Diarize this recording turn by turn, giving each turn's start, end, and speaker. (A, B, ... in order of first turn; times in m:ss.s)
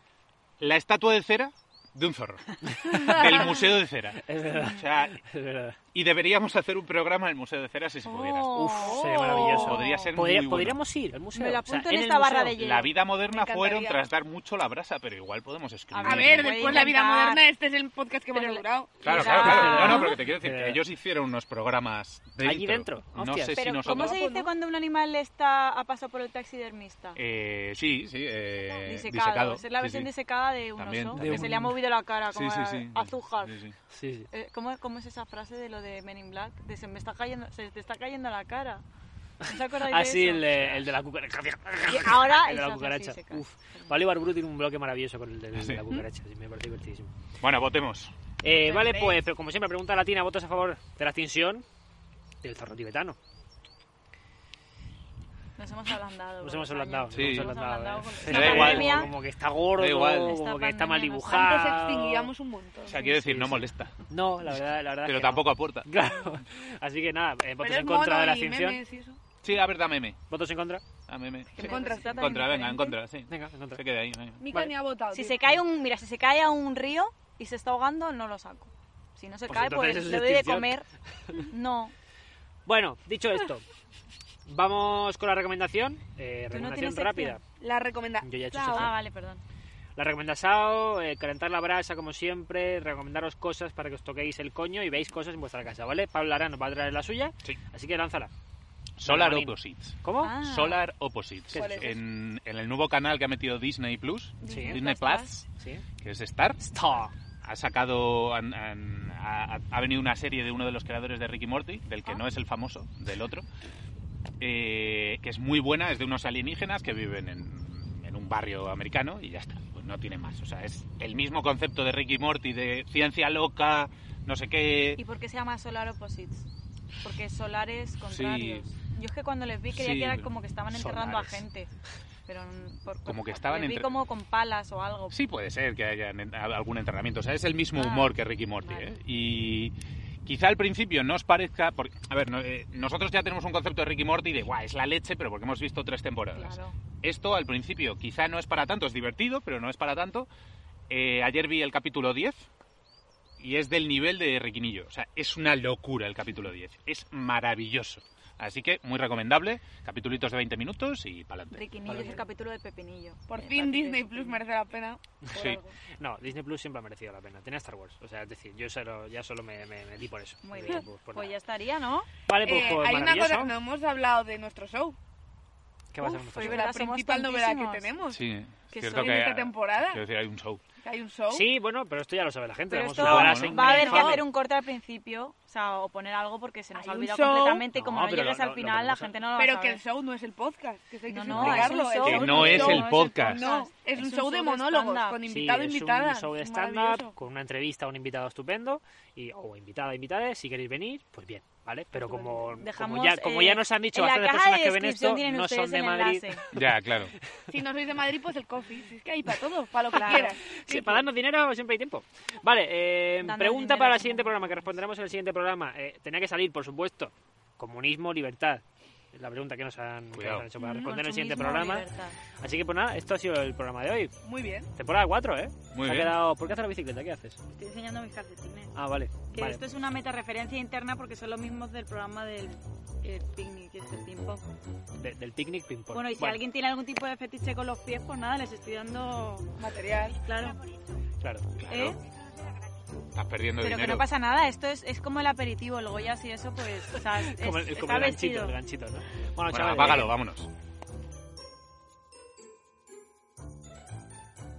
0:00.6-0:05.2 A
0:02.7-0:03.4 B
0:04.2-0:05.8 B
0:05.9-0:10.8 A
0:08.0-0:10.1 C
0:08.5-0:12.6 B
0:08.8-0:09.6 D
0:11.3-0:13.0 C
0:12.5-0:16.9 A
0:13.2-0:14.0 D
0:15.9-0:17.4 C
0:16.0-0:20.0 D
0:18.3-0:20.2 C
0:19.0-0:24.2 A
0:19.1-0:20.8 B
0:22.4-0:23.6 B
0:23.6-0:27.2 C
0:23.8-0:24.5 D
0:27.2-0:30.1 A
0:28.8-0:33.6 C
0:30.8-0:31.6 A
0:31.1-0:31.7 B
0:32.3-0:33.7 A
0:33.9-0:34.3 B
0:34.3-0:38.8 C
0:39.4-0:40.6 C
0:39.8-0:47.1 B
0:41.9-0:43.9 C
0:45.6-0:46.0 A
0:47.4-0:48.1 A
0:48.4-0:51.6 B
0:48.7-0:49.2 C
0:52.4-0:53.2 B
0:55.6-0:59.1 C
0:56.4-1:02.3 B
0:57.1-0:57.5 A
0:58.3-0:59.1 A
0:58.3-0:59.0 D
0:59.8-1:00.4 A
1:00.2-1:01.8 C
1:01.3-1:03.4 D
1:02.9-1:04.0 A
1:03.3-1:03.6 B
1:04.1-1:08.8 B
1:05.0-1:05.9 A
1:07.6-1:09.2 D
1:09.4-1:10.2 A
1:10.3-1:10.8 B
1:11.1-1:14.5 A
1:11.5-1:13.0 C
1:11.6-1:12.2 D
1:13.3-1:13.8 B
1:14.4-1:15.5 D
1:15.1-1:20.8 C
1:19.5-1:20.7 B
1:21.4-1:21.9 C
1:22.6-1:23.6 B
1:24.4-1:27.4 B
1:26.5-1:27.4 C
1:27.6-1:28.9 D
1:28.2-1:28.9 B
1:28.7-1:29.4 C
1:30.0-1:38.3 B
1:39.0-1:45.4 A
1:39.0-1:40.3 B
1:40.2-1:40.8 C
1:41.5-1:41.9 B
1:41.5-1:42.0 D
1:44.4-1:45.3 C
1:44.5-1:44.8 B
1:46.0-1:46.6 A
1:46.6-1:47.1 B
1:47.4-1:53.4 A
1:54.4-2:05.0 A
2:05.0-2:06.5 C
2:07.0-2:11.7 C
2:08.1-2:08.7 A
2:09.7-2:11.4 A
2:12.3-2:15.2 C
2:13.0-2:13.9 A
2:15.1-2:19.7 A
2:17.7-2:18.9 C
2:20.2-2:30.3 A
2:26.3-2:26.8 C
2:30.9-2:32.5 A
2:33.4-2:41.6 A
2:41.5-2:44.4 C
2:41.9-2:42.2 B
2:43.3-2:45.0 D
2:45.3-2:45.7 C
2:45.3-2:45.6 A
2:46.0-2:51.3 B
2:50.4-2:52.1 C
2:52.3-2:53.6 B
2:52.4-2:55.0 D
2:55.9-2:56.7 B
2:56.0-2:57.9 C
2:56.3-2:58.2 D
2:58.1-3:00.6 A
2:58.7-2:59.2 C
2:58.9-3:00.0 D
3:00.8-3:01.5 D
3:01.3-3:04.2 B
3:02.7-3:09.8 C
3:03.0-3:04.2 A
3:06.7-3:07.6 D
3:07.7-3:09.1 B
3:09.4-3:17.1 D
3:11.1-3:15.2 C
3:11.3-3:11.8 B
3:11.3-3:13.4 A
3:15.2-3:26.6 B
3:22.0-3:26.4 C
3:26.5-3:27.1 A
3:27.5-3:31.0 D
3:29.9-3:30.3 C
3:30.0-3:41.8 B
3:33.2-3:34.8 C
3:40.1-3:40.5 A
3:40.6-3:42.2 C
3:42.4-3:44.1 B
3:44.2-3:44.7 D
3:44.7-3:47.4 B
3:45.7-3:46.1 A
3:47.5-3:48.7 C
3:48.8-3:49.6 B
3:49.3-3:54.5 C
3:55.0-3:56.4 B
3:55.9-3:59.5 C
3:59.6-4:00.2 D
4:00.2-4:00.6 C
4:01.2-4:01.5 B
4:01.6-4:02.0 A
4:01.7-4:02.0 C
4:03.1-4:04.0 A
4:03.6-4:08.5 C
4:07.2-4:10.1 B
4:09.5-4:10.5 A